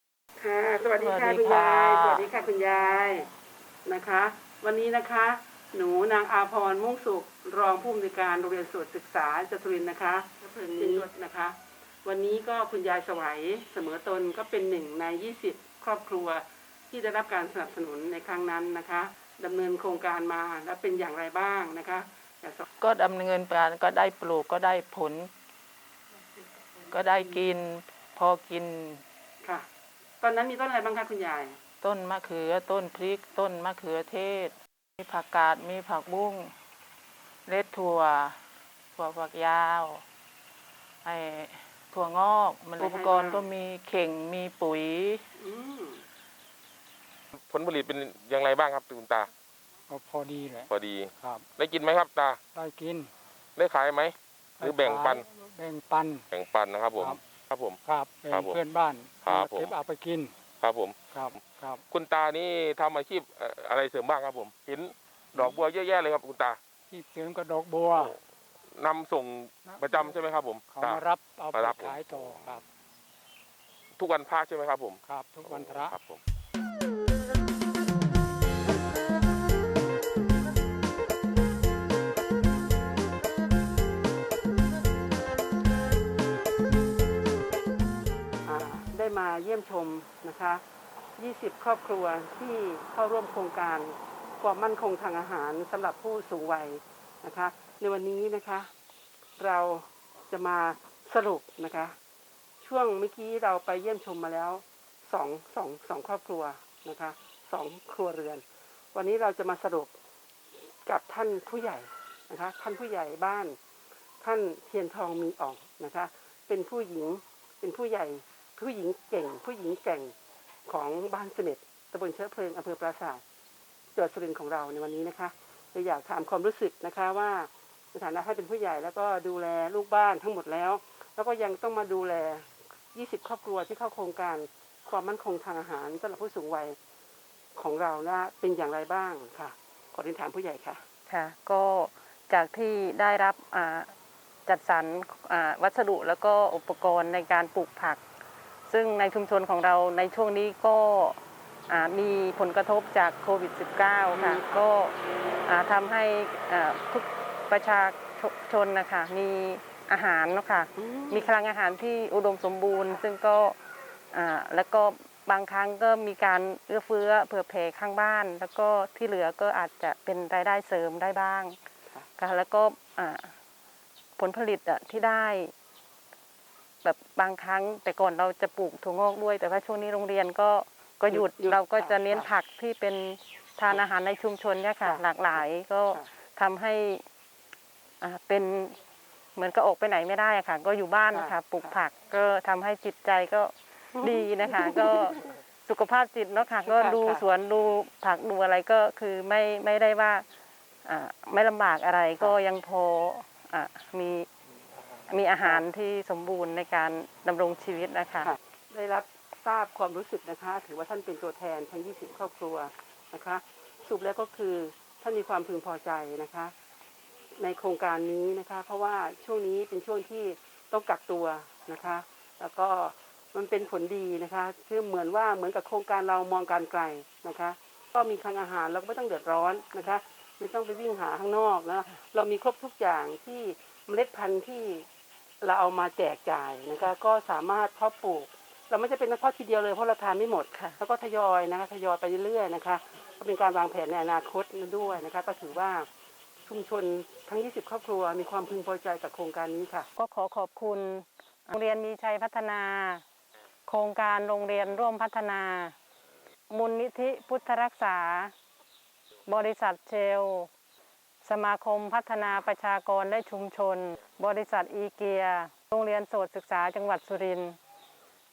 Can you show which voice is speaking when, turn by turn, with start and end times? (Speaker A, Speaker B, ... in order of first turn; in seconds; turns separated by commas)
Speaker A: 0.4-3.3, Speaker B: 0.9-2.3, Speaker A: 3.9-22.7, Speaker B: 10.8-11.1, Speaker B: 22.8-25.3, Speaker B: 26.8-29.0, Speaker A: 29.4-29.7, Speaker A: 30.2-31.6, Speaker B: 31.8-36.5, Speaker B: 37.5-38.4, Speaker B: 39.0-40.0, Speaker B: 41.0-45.2, Speaker A: 42.8-43.5, Speaker A: 45.4-46.0, Speaker C: 47.3-49.3, Speaker D: 49.9-51.5, Speaker C: 50.7-52.4, Speaker D: 52.5-53.1, Speaker C: 53.6-55.2, Speaker D: 54.6-56.2, Speaker C: 56.3-58.6, Speaker D: 57.9-60.3, Speaker C: 59.2-59.7, Speaker C: 60.6-61.0, Speaker D: 61.1-61.8, Speaker C: 61.9-66.6, Speaker D: 66.9-68.2, Speaker C: 68.7-72.6, Speaker D: 69.7-70.2, Speaker D: 70.7-72.6, Speaker C: 74.0-76.2, Speaker D: 75.1-76.0, Speaker A: 88.4-90.6, Speaker A: 91.2-98.7, Speaker A: 99.4-102.0, Speaker A: 102.6-109.9, Speaker A: 110.9-113.6, Speaker A: 114.2-120.1, Speaker A: 120.7-123.2, Speaker A: 123.9-136.8, Speaker A: 137.6-140.8, Speaker E: 141.1-143.9, Speaker E: 144.5-148.0, Speaker E: 148.7-163.6, Speaker A: 154.1-154.6, Speaker A: 160.8-161.3, Speaker E: 164.1-171.6, Speaker E: 172.2-173.3, Speaker E: 174.2-175.5, Speaker E: 176.8-187.0, Speaker A: 181.1-182.3, Speaker A: 184.8-186.1, Speaker E: 188.0-188.8, Speaker E: 189.4-200.3, Speaker A: 191.1-191.8, Speaker A: 194.0-195.2, Speaker A: 196.7-197.2, Speaker E: 200.8-204.3, Speaker E: 205.1-208.3, Speaker A: 208.2-216.5, Speaker A: 217.4-234.9, Speaker A: 235.4-245.9, Speaker A: 246.4-249.9, Speaker E: 250.0-253.0, Speaker E: 253.7-255.8, Speaker E: 256.5-258.3, Speaker E: 259.3-260.5, Speaker E: 261.2-267.6